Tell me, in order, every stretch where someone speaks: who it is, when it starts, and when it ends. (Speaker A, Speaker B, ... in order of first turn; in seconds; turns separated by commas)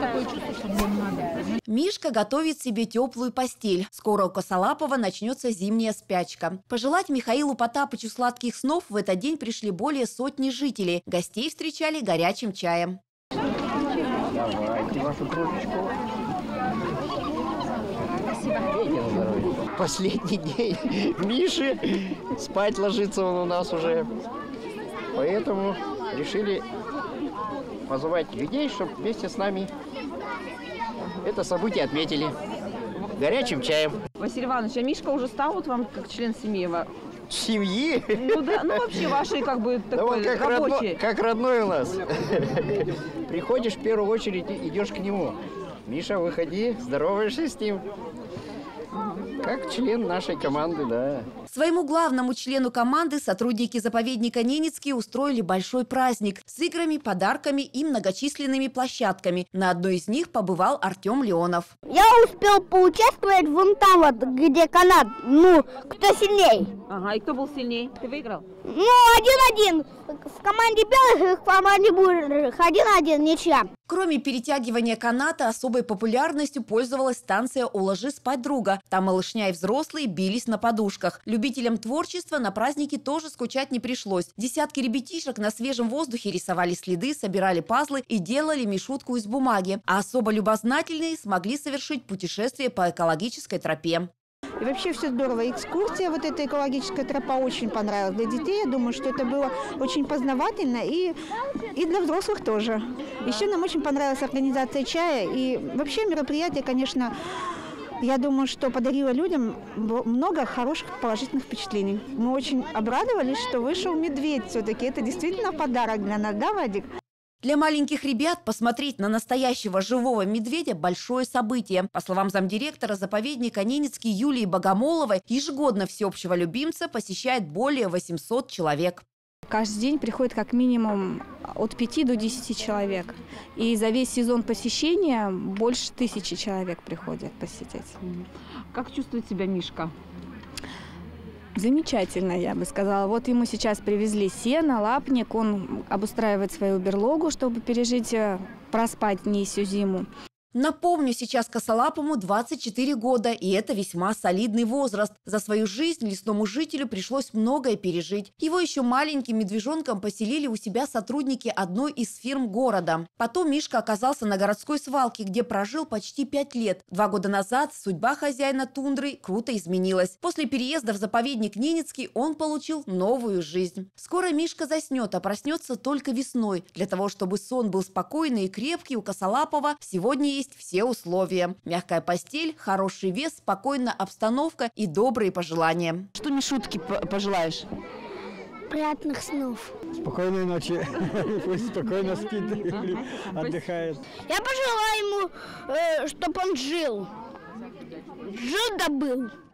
Speaker A: 1.7-13.0, Speaker B: 14.3-15.9, Speaker B: 18.5-24.1, Speaker B: 25.1-26.6, Speaker B: 27.9-29.7, Speaker B: 31.2-32.3, Speaker B: 33.0-34.0, Speaker C: 34.2-36.9, Speaker B: 37.3-39.0, Speaker C: 38.1-41.0, Speaker B: 39.9-47.8, Speaker C: 48.9-49.2, Speaker B: 49.4-51.3, Speaker A: 51.5-61.7, Speaker D: 61.9-66.7, Speaker C: 66.9-68.5, Speaker D: 68.6-73.7, Speaker A: 73.9-94.1, Speaker E: 94.6-101.1, Speaker E: 101.7-107.1, Speaker E: 108.0-116.9, Speaker A: 117.4-129.0, Speaker F: 129.5-138.0, Speaker C: 138.0-139.9, Speaker F: 141.6-150.1, Speaker A: 150.5-186.1, Speaker C: 186.2-187.6, Speaker D: 188.7-189.7, Speaker G: 190.0-194.0, Speaker C: 192.5-194.0, Speaker D: 194.2-197.1, Speaker D: 198.3-199.3